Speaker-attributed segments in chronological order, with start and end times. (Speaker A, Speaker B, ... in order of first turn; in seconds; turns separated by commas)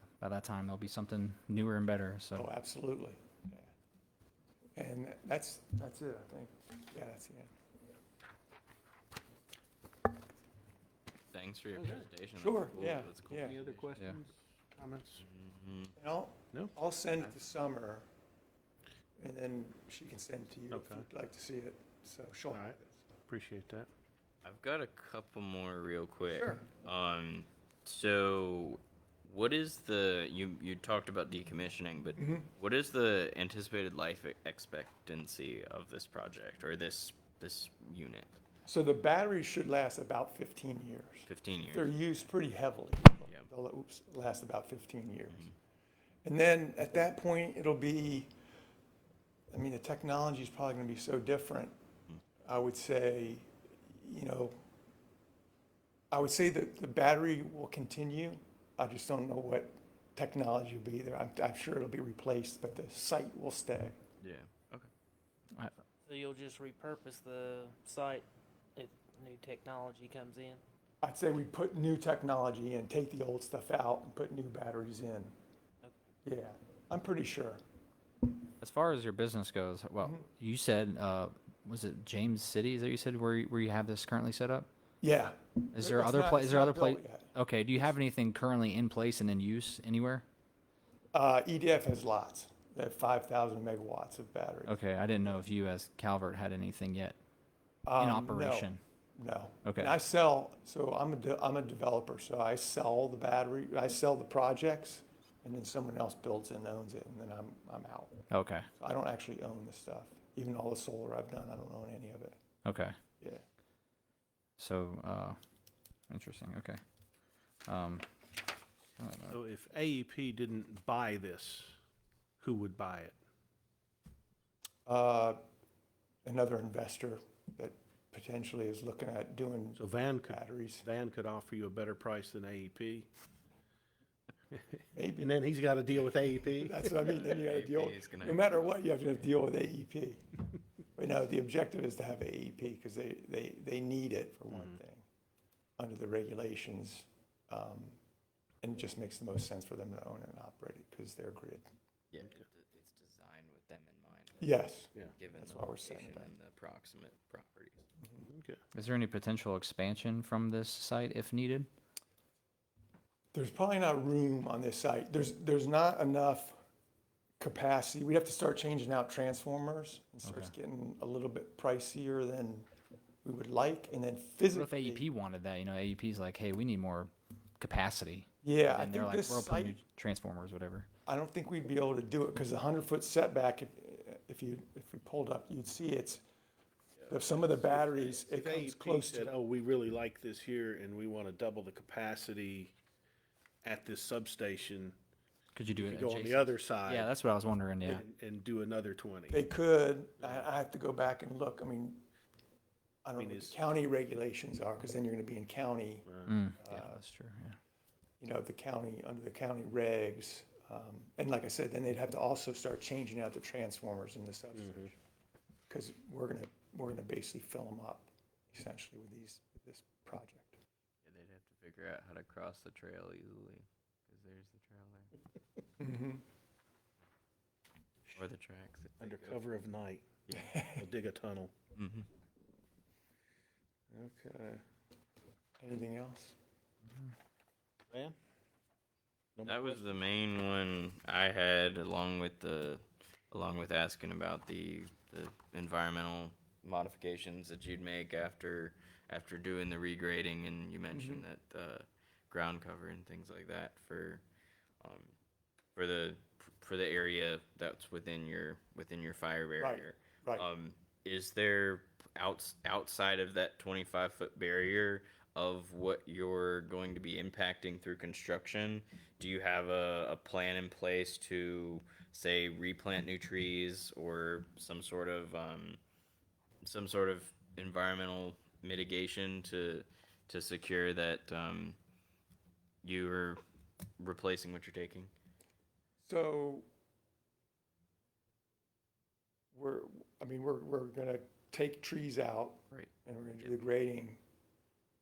Speaker A: 0.2-2.5, Speaker B: 2.3-3.7, Speaker B: 4.8-7.5, Speaker C: 11.3-13.9, Speaker D: 11.7-12.1, Speaker B: 12.4-13.6, Speaker D: 13.4-15.2, Speaker C: 15.2-15.9, Speaker B: 16.0-18.1, Speaker B: 19.2-22.9, Speaker D: 20.7-21.1, Speaker D: 22.5-23.9, Speaker C: 24.4-38.3, Speaker B: 32.2-32.5, Speaker B: 38.6-45.5, Speaker C: 41.2-42.2, Speaker B: 46.2-48.3, Speaker B: 49.5-51.7, Speaker B: 52.4-54.6, Speaker B: 56.1-64.0, Speaker C: 64.2-64.9, Speaker E: 66.1-68.2, Speaker E: 68.8-70.6, Speaker B: 71.0-75.3, Speaker B: 76.2-77.6, Speaker A: 78.6-84.7, Speaker B: 80.0-80.3, Speaker B: 85.0-88.0, Speaker A: 85.7-90.2, Speaker B: 91.1-95.4, Speaker A: 94.7-97.2, Speaker B: 97.8-108.2, Speaker A: 98.0-98.8, Speaker A: 99.6-99.9, Speaker A: 108.3-108.7, Speaker B: 108.8-112.4, Speaker A: 112.6-112.9, Speaker A: 114.6-115.4, Speaker A: 116.1-116.8, Speaker A: 117.7-118.0, Speaker A: 119.0-119.4, Speaker D: 119.3-121.7, Speaker D: 122.4-123.2, Speaker B: 124.8-125.4, Speaker B: 126.2-130.8, Speaker D: 129.8-133.1, Speaker D: 134.5-136.8, Speaker B: 134.9-135.3, Speaker B: 136.6-140.2, Speaker C: 137.1-138.8, Speaker B: 140.9-145.0, Speaker D: 144.5-144.8, Speaker B: 145.8-148.0, Speaker B: 148.6-151.7, Speaker C: 152.1-154.6, Speaker B: 154.4-156.3, Speaker C: 155.2-157.8, Speaker D: 158.2-158.6, Speaker A: 158.7-161.7, Speaker B: 163.3-166.6, Speaker B: 167.4-172.7, Speaker A: 170.2-170.5, Speaker B: 173.2-175.0, Speaker A: 174.5-180.9, Speaker B: 178.4-179.8, Speaker B: 181.1-186.2, Speaker D: 187.0-192.7, Speaker B: 187.1-189.4, Speaker D: 193.6-194.9, Speaker A: 195.6-198.0, Speaker D: 195.7-197.1, Speaker D: 197.8-199.4, Speaker B: 199.3-202.0, Speaker D: 200.2-200.4, Speaker B: 203.0-206.1, Speaker D: 203.2-203.6, Speaker D: 206.1-206.3, Speaker A: 206.3-207.6, Speaker B: 206.6-207.0, Speaker B: 208.2-214.9, Speaker D: 214.6-214.9, Speaker B: 215.7-220.5, Speaker C: 221.0-225.1, Speaker B: 225.8-226.2, Speaker C: 228.1-229.4, Speaker D: 229.0-231.5, Speaker C: 230.3-230.6, Speaker B: 230.3-230.8, Speaker C: 231.7-232.1, Speaker D: 233.9-234.6, Speaker B: 235.6-236.3, Speaker D: 237.9-238.2, Speaker D: 239.4-240.0, Speaker C: 239.4-254.2, Speaker B: 250.9-251.2, Speaker C: 254.8-255.1, Speaker C: 255.8-275.8, Speaker B: 259.6-260.4, Speaker C: 276.6-281.8, Speaker C: 282.8-283.4, Speaker C: 284.0-285.1, Speaker B: 286.0-286.6, Speaker B: 289.5-294.2, Speaker C: 292.7-293.6